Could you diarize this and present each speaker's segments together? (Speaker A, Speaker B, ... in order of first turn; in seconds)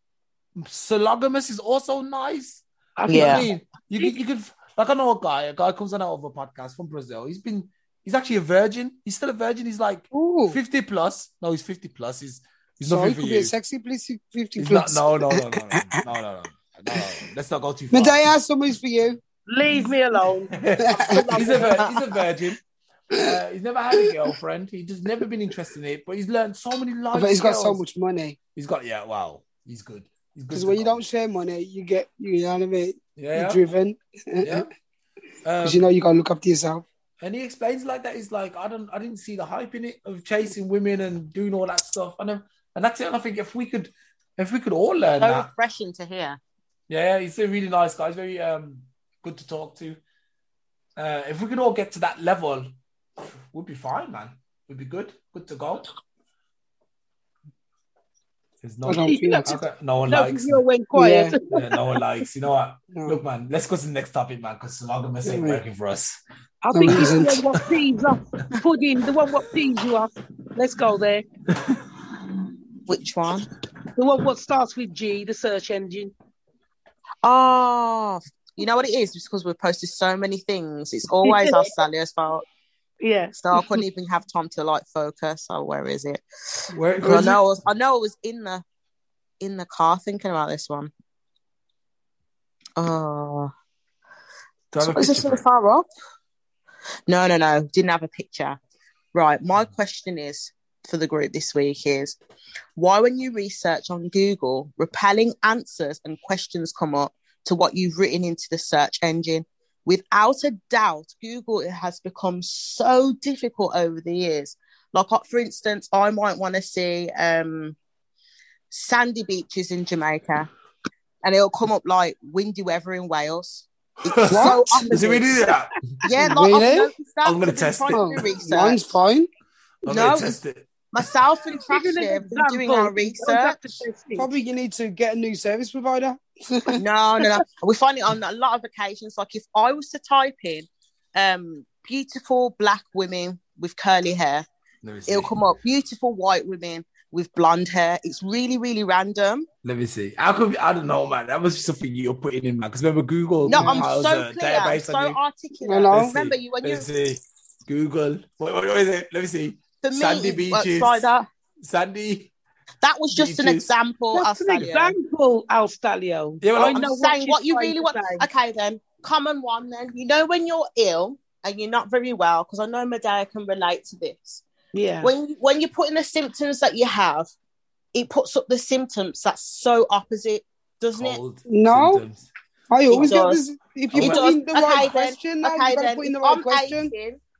Speaker A: 0.6-13.5, 14.6-18.2, 20.5-22.6, 23.1-27.8, 28.6-31.0, 33.2-33.6, 34.4-34.7, 35.4-35.9, 37.2-45.5, 46.9-50.0, 51.0-52.7, 53.5-55.9, 58.6-60.6, 61.5-66.2, 66.9-67.2, 86.7-87.4, 94.7-95.4, 124.1-125.8, 127.2-128.3, 129.8-130.7, 144.8-145.4, 149.6-155.2, 155.9-161.1, 161.6-162.3, 163.1-163.7, 166.4-166.8, 180.9-182.3, 183.9-184.2
Speaker B: 3.0-4.1, 19.5-21.8, 59.0-62.0, 66.6-71.3, 74.0-76.1, 81.2-81.7, 83.0-83.8, 131.7-134.3, 164.1-168.3, 174.7-175.1
Speaker C: 3.1-3.5, 45.2-46.4, 72.9-73.5, 77.2-82.5, 83.3-88.6, 89.4-90.9, 92.8-93.5, 94.8-95.9, 97.1-98.6, 99.1-102.2, 102.8-117.8, 118.7-120.5, 121.2-125.3, 126.0-128.8, 129.9-130.4, 130.9-133.6, 136.8-144.5, 145.1-149.5, 153.5-156.9, 159.8-161.3, 162.8-165.0, 166.7-174.4, 175.0-177.3, 177.9-181.2, 182.9-183.4, 184.0-187.2
Speaker D: 10.1-10.6, 12.8-15.8, 17.9-19.2, 20.8-21.5, 27.1-28.4, 30.5-34.7, 35.6-36.9, 58.9-59.6, 61.0-61.4, 62.9-63.2, 65.2-65.6, 66.7-67.4, 124.3-124.6, 126.2-126.9, 127.9-129.3, 134.2-136.8, 153.5-153.9, 155.6-156.1, 181.5-182.0, 182.7-186.9